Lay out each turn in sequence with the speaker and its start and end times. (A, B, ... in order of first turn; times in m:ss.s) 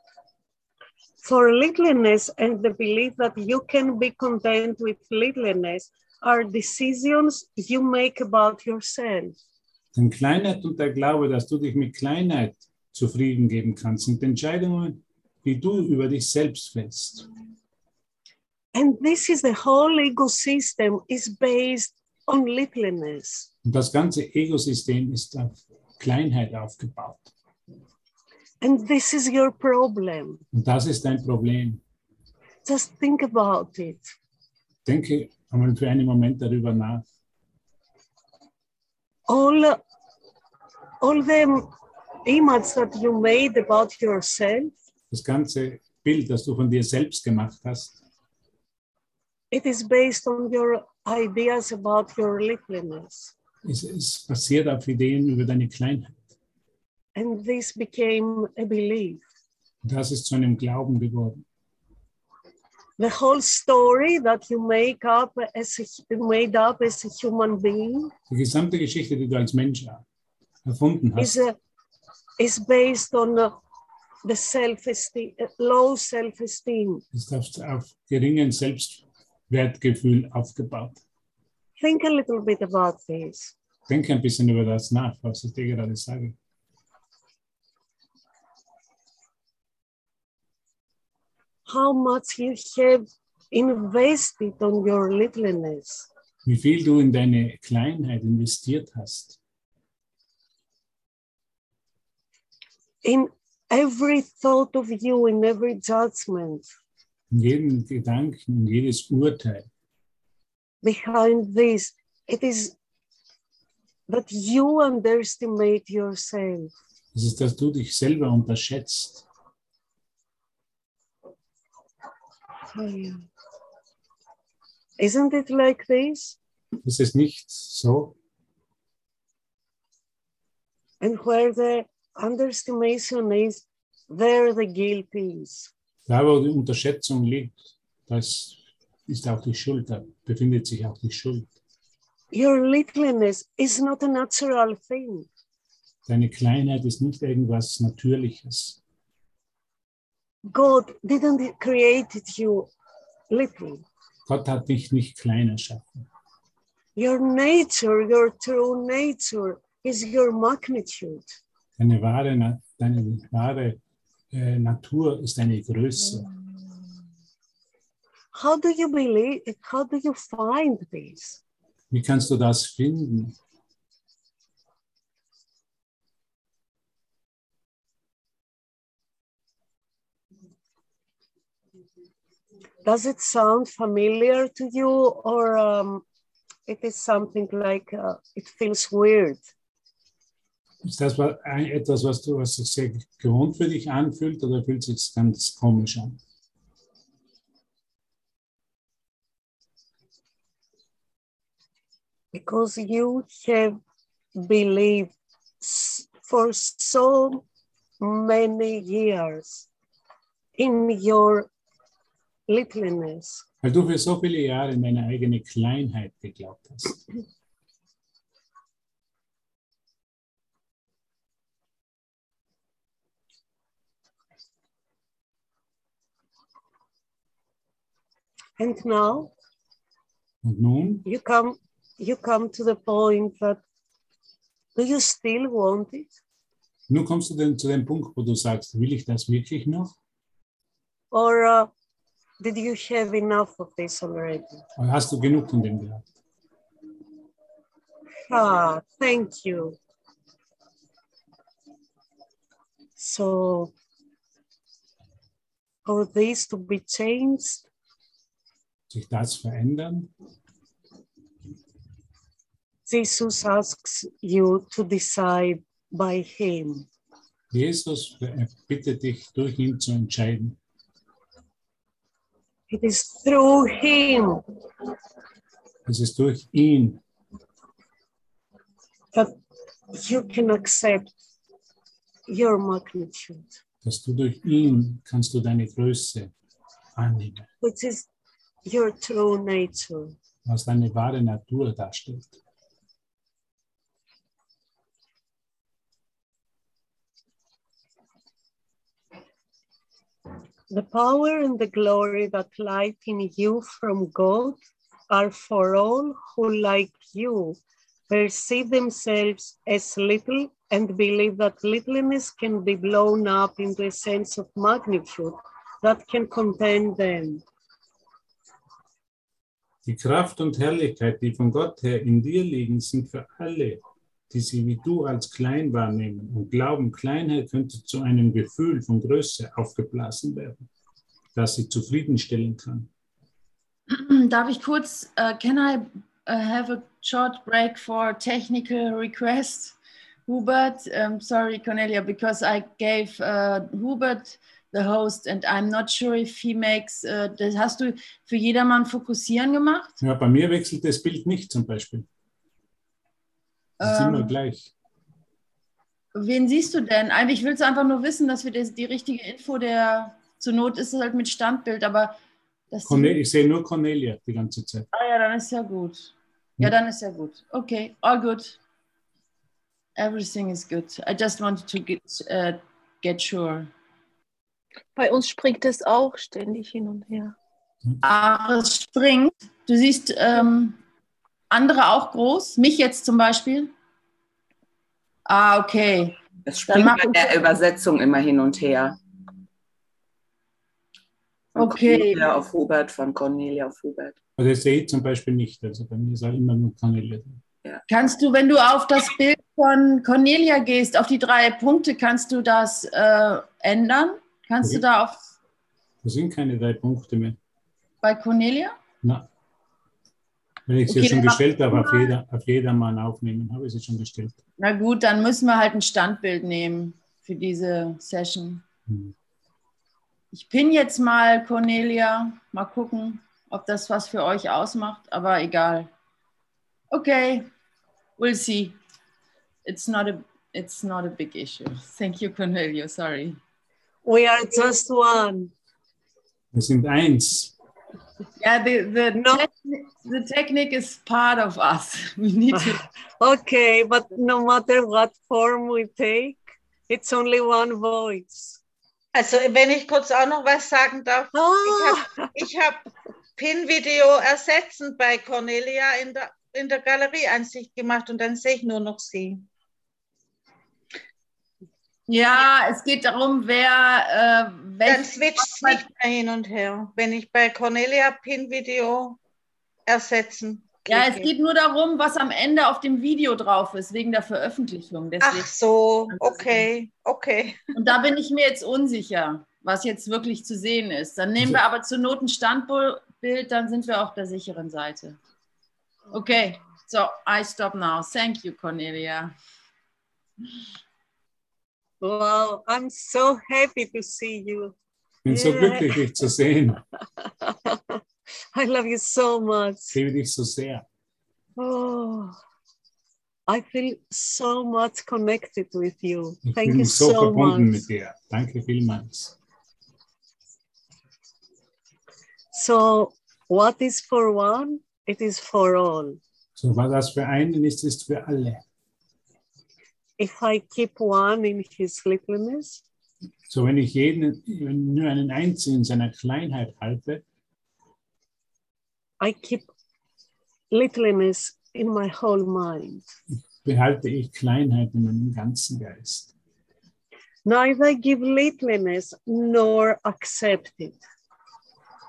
0:01.2-0:09.4 A
0:09.9-0:17.3 B
0:18.7-0:23.5 A
0:23.6-0:27.3 B
0:28.6-0:30.4 A
0:30.5-0:31.8 B
0:32.6-0:34.1 A
0:34.8-0:37.0 B
0:39.3-0:39.8 A
0:41.0-0:41.7 A
0:42.2-0:44.7 A
0:45.1-0:48.0 B
0:49.5-0:53.3 A
0:53.6-0:56.3 B
0:57.1-0:59.2 A
0:59.8-1:01.4 B
1:03.0-1:08.1 A
1:08.3-1:10.0 B
1:10.6-1:11.4 B
1:11.2-1:11.6 A
1:12.4-1:13.6 A
1:14.2-1:17.0 A
1:17.1-1:21.0 B
1:21.8-1:23.5 A
1:23.9-1:26.4 B
1:31.6-1:36.1 A
1:36.4-1:39.4 B
1:43.0-1:46.7 A
1:47.3-1:49.7 B
1:50.8-1:52.7 A
1:54.1-1:56.7 A
1:57.1-1:59.2 B
2:02.7-2:03.2 A
2:05.0-2:06.4 A
2:06.8-2:08.1 B
2:11.0-2:15.7 A
2:16.1-2:21.5 B
2:22.3-2:25.3 A
2:26.0-2:28.8 B
2:30.5-2:32.7 A
2:33.3-2:33.8 A
2:34.3-2:36.1 B
2:37.0-2:41.4 A
2:41.8-2:43.8 B
2:44.3-2:46.3 B
2:48.3-2:51.4 A
2:51.9-2:53.4 B
3:02.8-3:06.0 A
3:06.6-3:09.4 A
3:10.8-3:16.2 B
3:22.3-3:23.8 A
3:24.4-3:27.4 A
3:28.0-3:29.7 A
3:30.6-3:31.5 A
3:32.5-3:33.4 A
3:33.6-3:37.0 B
3:48.6-3:49.3 A
3:50.4-3:51.0 B
3:51.0-3:53.6 A
3:54.7-3:56.1 A
3:56.9-3:59.9 B
4:01.1-4:01.7 A
4:02.4-4:04.6 A
4:04.8-4:06.1 B
4:08.3-4:09.8 A
4:13.0-4:13.7 A
4:15.8-4:17.7 A
4:18.9-4:20.1 B
4:22.8-4:26.9 A
4:27.5-4:30.6 B
4:32.7-4:34.4 A
4:35.8-4:37.0 B
4:39.9-4:41.1 A
4:42.3-4:43.6 A
4:43.8-4:46.3 B
4:47.0-4:47.5 B
4:47.6-4:48.1 A
4:48.6-4:50.2 A
4:50.4-4:52.4 B
5:00.7-5:04.6 A
5:05.1-5:17.4 A
5:19.8-5:30.6 B
5:31.3-5:32.9 B
5:33.9-5:50.0 C
5:50.0-5:52.1 B
5:53.8-5:54.3 C
5:53.8-5:54.7 B
5:56.1-6:02.2 C
6:02.7-6:03.2 C
6:02.8-6:04.9 B
6:04.9-6:08.6 C
6:10.0-6:13.7 C
6:15.0-6:17.3 D
6:18.0-6:20.8 C
6:21.5-6:23.7 C
6:25.2-6:27.4 C
6:26.5-6:29.0 E
6:31.5-6:34.2 E
6:31.6-6:32.2 C
6:34.4-6:37.4 B
6:37.9-6:45.2 C
6:46.0-6:47.4 B
6:48.0-6:48.8 C
6:50.7-6:54.4 B
6:50.9-6:52.1 C
6:54.6-6:58.6 C
6:58.9-6:59.1 B
7:00.3-7:05.9 C
7:06.9-7:07.5 C
7:08.2-7:08.8 C
7:09.6-7:13.4 C
7:14.0-7:15.5 A
7:16.5-7:17.5 B
7:18.4-7:22.8 C
7:19.1-7:19.5 A
7:22.5-7:28.6 A
7:29.1-7:39.4 F
7:31.3-7:32.3 A
7:42.1-7:45.8 C
7:44.8-7:49.2 F
7:49.9-7:51.3 F
7:50.9-7:55.5 C
7:55.2-7:57.6 F
7:56.1-7:56.6 C
7:57.7-8:05.2 C
8:06.1-8:09.3 C
8:12.0-8:14.7 A
8:15.2-8:16.8 B
8:15.3-8:16.0 A
8:17.2-8:18.0 A
8:18.5-8:20.0 A
8:19.9-8:20.8 B
8:21.6-8:22.4 A
8:23.5-8:27.8 A
8:26.4-8:29.3 B
8:32.5-8:36.2 A
8:36.6-8:38.6 B
8:40.2-8:42.8 A
8:43.5-8:47.2 B
8:49.2-8:49.7 A
8:50.7-8:53.0 A
8:53.3-8:56.3 B
8:57.4-9:01.0 A